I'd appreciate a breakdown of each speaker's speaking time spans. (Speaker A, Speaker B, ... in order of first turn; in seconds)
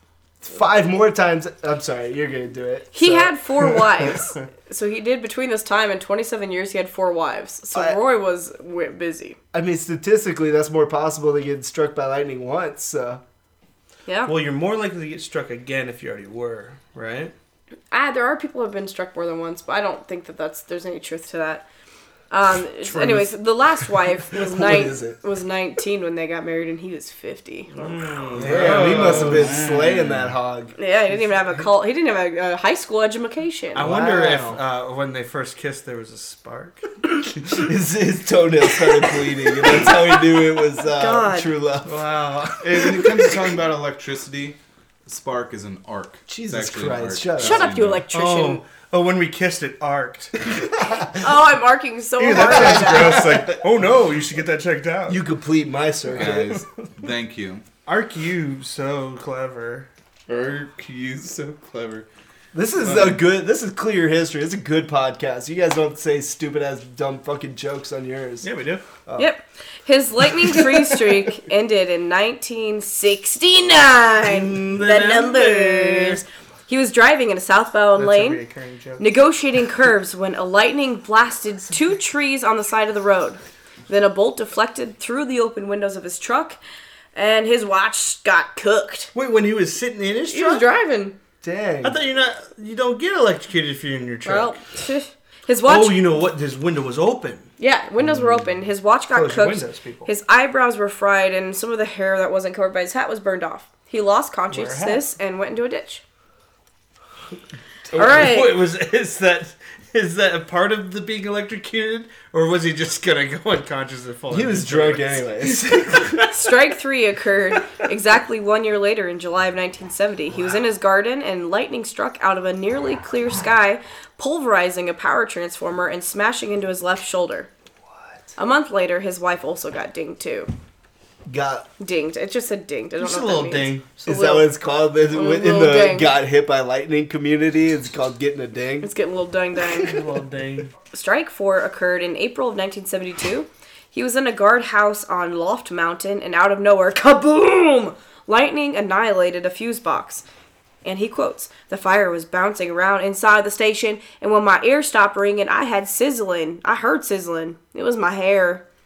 Speaker A: 0.4-3.9, 7.7-8.0, 9.5-13.2, 24.3-25.2, 28.4-30.7, 33.8-34.6, 37.4-43.0, 46.3-47.7, 52.4-53.4, 55.1-56.6, 62.5-68.5, 91.4-92.0, 114.3-116.2, 131.3-131.7, 134.0-138.9
Speaker B: 2.9-9.4, 14.1-14.3, 17.9-21.7, 22.3-28.0, 30.8-33.9, 41.0-41.5, 47.4-48.6, 51.2-53.2, 69.2-78.4, 79.0-86.6, 87.2-89.1, 90.3-91.2, 94.2-96.0, 97.6-106.0, 107.9-108.6, 116.3-127.5, 128.4-130.5, 131.8-134.5, 135.1-136.2, 138.8-140.0, 140.9-150.2, 150.8-158.6
Speaker C: 14.3-17.3, 23.0-23.2, 27.7-29.5, 33.8-36.8, 41.9-42.9, 48.1-50.5, 52.2-55.2, 57.9-59.9, 68.4-68.9, 74.2-76.2, 78.0-79.0, 89.1-90.7, 91.8-94.6, 95.7-97.5, 99.1-100.1, 104.5-105.0, 107.9-116.2, 133.0-133.9, 139.8-140.7
Speaker D: 28.4-30.3, 42.6-48.0, 52.4-53.6, 56.2-57.6, 60.3-62.1, 62.8-63.2